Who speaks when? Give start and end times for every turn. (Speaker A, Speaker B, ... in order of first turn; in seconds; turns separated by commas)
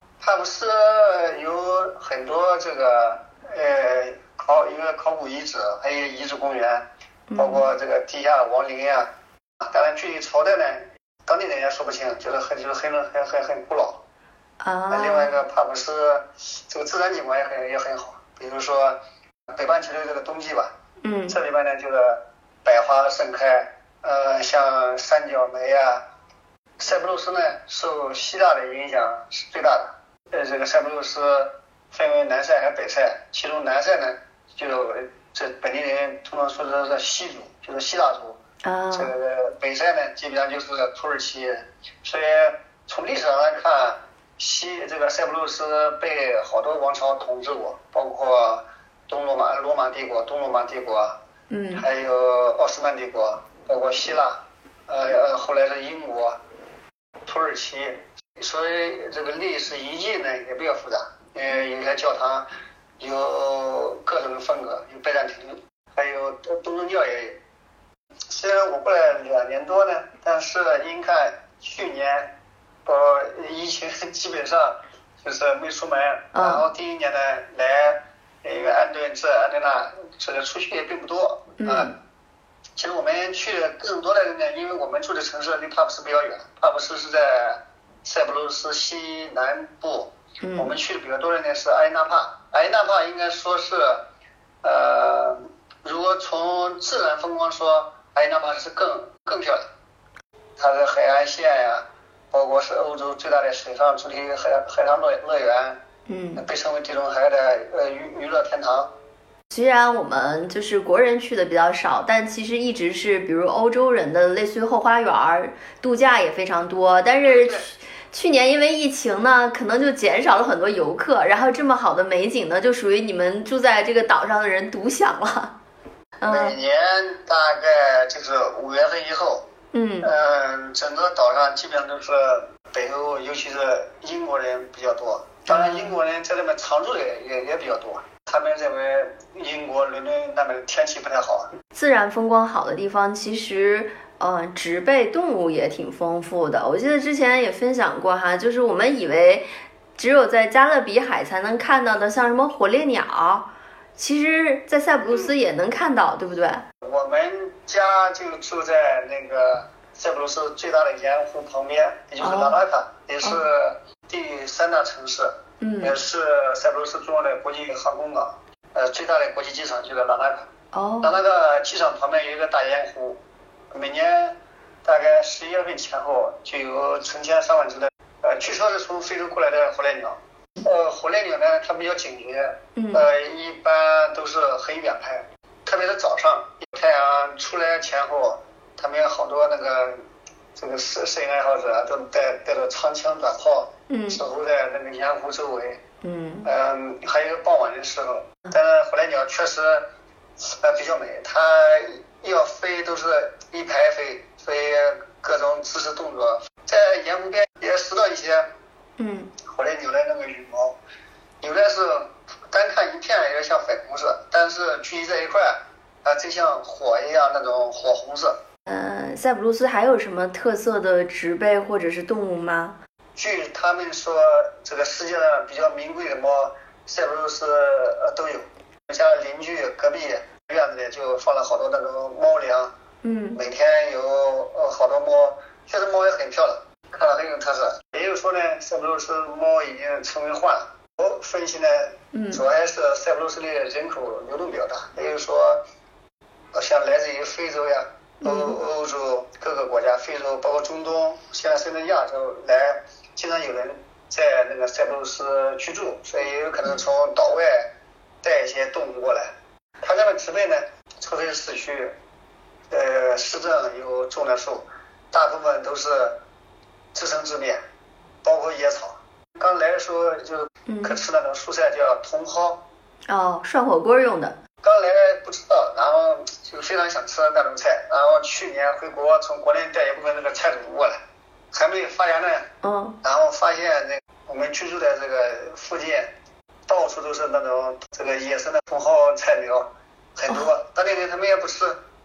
Speaker A: 0.2-6.8, Speaker B: 7.3-7.7, Speaker A: 7.4-9.1, Speaker A: 9.7-14.0, Speaker B: 14.6-15.3, Speaker A: 14.9-19.0, Speaker A: 19.5-20.7, Speaker B: 21.0-21.4, Speaker A: 21.3-26.0, Speaker A: 26.8-38.4, Speaker B: 38.6-39.1, Speaker A: 38.9-51.2, Speaker B: 51.5-51.9, Speaker A: 51.8-56.4, Speaker A: 57.3-62.5, Speaker A: 63.0-67.4, Speaker A: 68.3-72.3, Speaker A: 72.9-81.9, Speaker B: 76.3-76.7, Speaker B: 81.6-81.9, Speaker A: 82.8-94.0, Speaker B: 90.4-90.7, Speaker A: 94.6-99.7, Speaker A: 100.6-105.8, Speaker B: 106.1-106.4, Speaker A: 106.3-108.9, Speaker B: 109.5-125.5, Speaker A: 117.2-117.7, Speaker B: 126.2-126.6, Speaker A: 126.3-129.4, Speaker B: 129.7-130.1, Speaker A: 130.0-141.5, Speaker B: 135.5-136.0, Speaker B: 141.8-149.4, Speaker B: 150.0-156.7, Speaker A: 155.1-155.3, Speaker A: 156.8-170.5, Speaker B: 162.2-162.6, Speaker B: 165.6-166.0, Speaker B: 170.7-171.2, Speaker A: 171.0-173.2, Speaker A: 173.7-190.0, Speaker B: 182.8-183.0, Speaker A: 190.6-195.8, Speaker B: 193.9-194.2, Speaker B: 196.0-196.5, Speaker A: 196.4-199.8, Speaker A: 200.4-208.5, Speaker B: 209.0-209.3, Speaker A: 209.5-210.8, Speaker A: 211.4-218.4, Speaker B: 218.7-222.8, Speaker A: 223.2-232.7, Speaker B: 233.0-233.4, Speaker A: 233.3-245.6, Speaker B: 242.1-242.4, Speaker A: 246.5-257.7, Speaker B: 248.2-248.6, Speaker A: 258.2-261.9, Speaker A: 262.7-266.2, Speaker A: 266.9-267.6, Speaker A: 268.2-272.6, Speaker B: 270.7-271.0, Speaker B: 273.1-274.4, Speaker A: 274.6-281.0, Speaker A: 281.5-282.5, Speaker B: 282.6-283.0, Speaker A: 283.0-286.1, Speaker A: 286.7-291.8